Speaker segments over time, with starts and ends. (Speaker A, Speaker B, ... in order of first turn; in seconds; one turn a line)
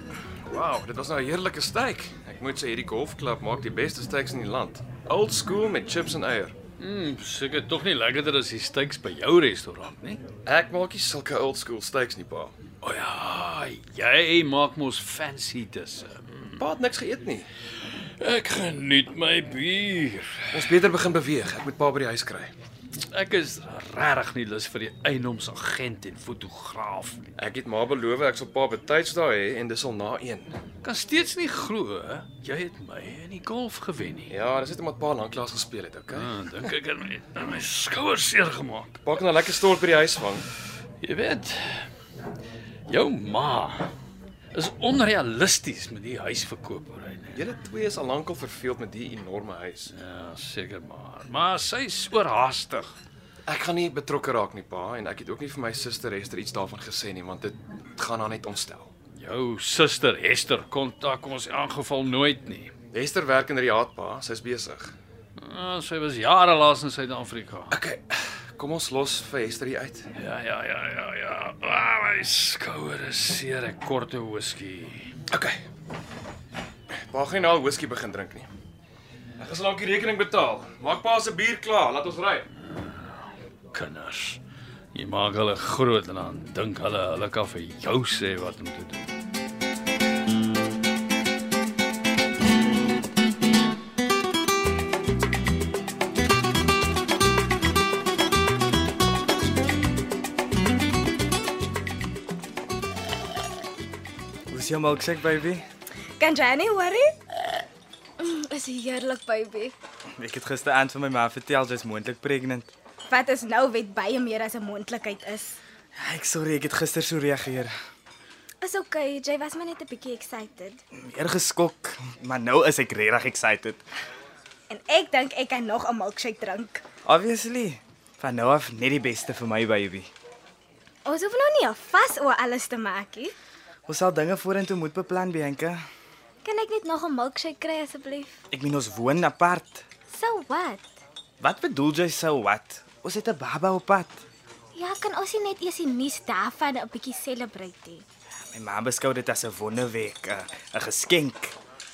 Speaker A: 0.5-6.5
Speaker B: 6.8-10.2
Speaker A: 10.4-12.6
Speaker B: 12.8-16.6
Speaker A: 16.6-17.5
Speaker B: 18.2-20.6
Speaker A: 20.5-22.5
Speaker B: 23.1-27.3
Speaker A: 27.4-30.6
Speaker B: 30.8-34.3
Speaker A: 34.3-36.4
Speaker B: 36.1-39.0
Speaker A: 39.0-40.5
Speaker B: 41.0-41.9
Speaker B: 42.9-43.9
Speaker B: 44.5-47.4
Speaker A: 47.3-49.9
Speaker B: 49.9-52.9
Speaker A: 53.5-58.9
Speaker B: 59.1-62.7
Speaker A: 62.9-64.9
Speaker B: 65.4-67.7
Speaker A: 67.7-70.1
Speaker B: 70.2-75.1
Speaker A: 75.3-75.6
Speaker A: 76.9-78.5
Speaker A: 79.4-82.5
Speaker B: 83.7-84.4
Speaker B: 84.9-89.1
Speaker C: 104.5-105.6
Speaker D: 106.2-107.1
Speaker D: 108.2-109.7
Speaker C: 110.2-112.7
Speaker D: 113.1-115.6
Speaker C: 116.0-117.7
Speaker D: 118.6-120.8
Speaker C: 121.0-123.8
Speaker D: 124.7-126.8
Speaker C: 127.0-130.1
Speaker D: 131.0-133.3
Speaker C: 133.9-135.8
Speaker D: 136.4-138.4
Speaker C: 138.5-139.8
Speaker D: 140.1-140.9
Speaker C: 141.4-144.2
Speaker D: 144.7-148.0
Speaker C: 148.5-151.5